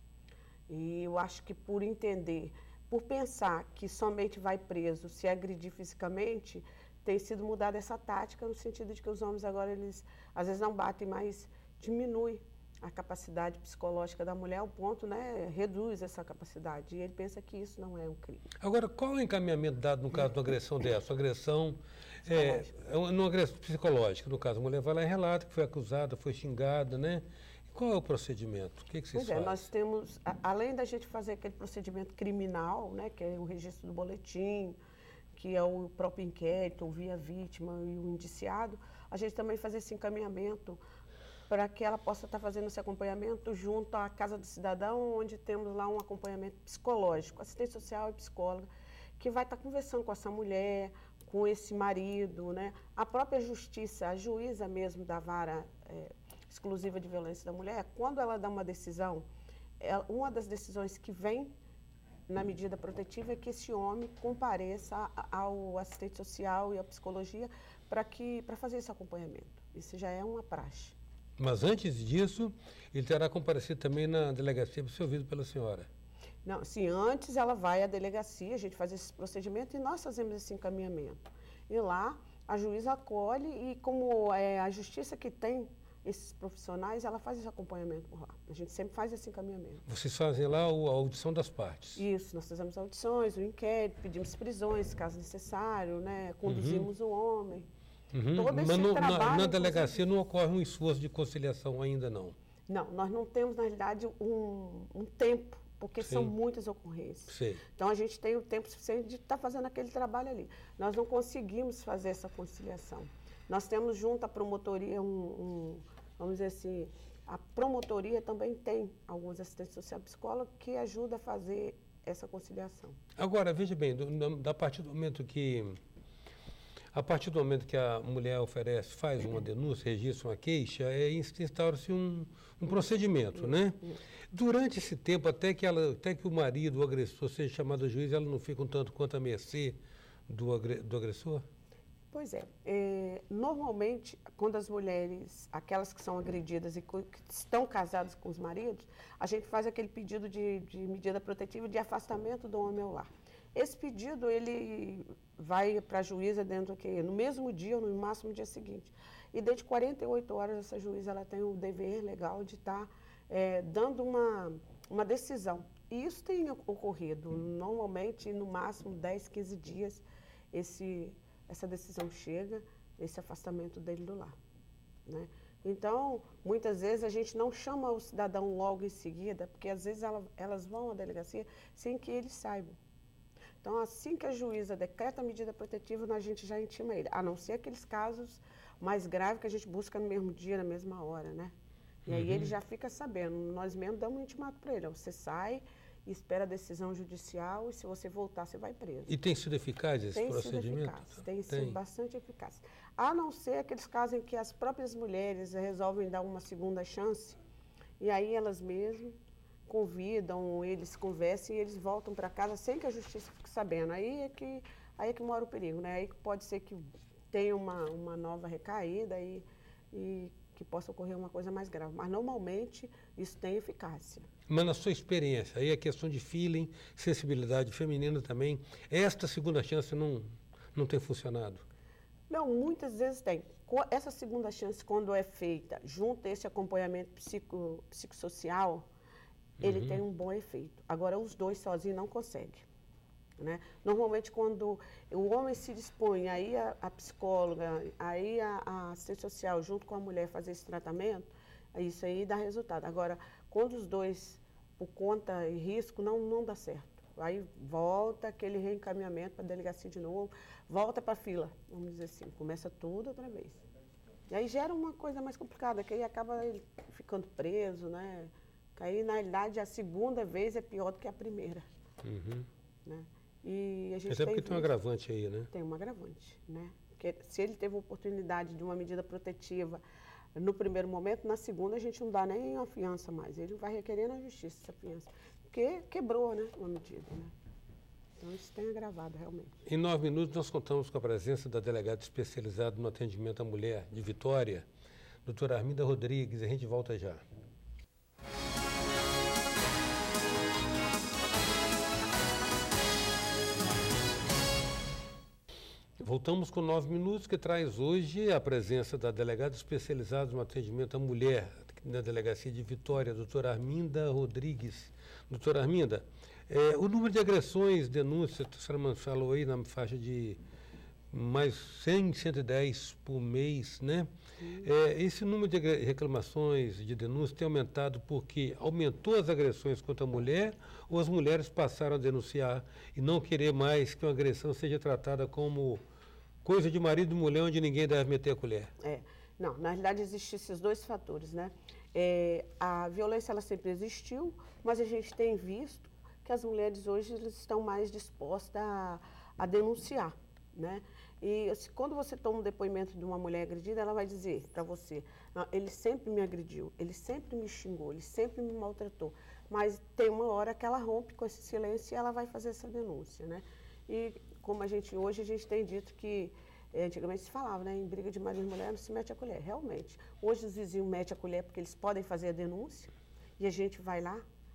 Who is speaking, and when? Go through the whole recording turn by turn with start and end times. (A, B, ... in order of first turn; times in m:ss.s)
0:00.7-0:18.5 A
0:18.6-0:29.6 B
0:22.2-0:22.7 A
0:29.1-0:34.8 A
0:35.3-0:40.8 A
0:41.5-0:48.7 A
0:49.2-0:59.2 A
0:59.8-1:01.5 A
1:02.3-1:11.0 A
1:11.4-1:15.9 B
1:16.4-1:29.8 A
1:29.9-1:32.0 B
1:32.0-1:37.7 A
1:36.4-1:36.9 B
1:38.1-1:42.3 B
1:38.3-1:40.0 A
1:42.7-2:03.0 A
1:46.0-1:46.3 B
1:47.3-1:47.6 B
2:03.2-2:05.8 B
2:06.9-2:21.4 B
2:22.1-2:54.3 A
2:55.1-3:02.8 A
3:03.6-3:11.5 A
3:12.0-3:19.1 A
3:12.1-3:12.5 B
3:19.1-3:21.8 B
3:20.1-3:27.4 A
3:28.0-3:44.2 A
3:44.5-3:51.6 B
3:52.3-3:58.8 A
3:59.6-4:00.0 B
3:59.6-4:02.6 A
4:03.4-4:23.6 A
4:24.3-4:31.6 A
4:32.0-4:32.5 B
4:32.8-4:34.7 A
4:34.1-4:35.5 B
4:35.5-4:39.8 A
4:40.3-4:47.3 A
4:48.2-4:49.5 A
4:49.6-4:54.6 B
4:55.2-4:57.2 B
5:06.0-5:20.4 B
5:21.1-5:35.8 B
5:24.4-5:24.7 A
5:36.4-5:38.7 B
5:38.8-6:14.2 A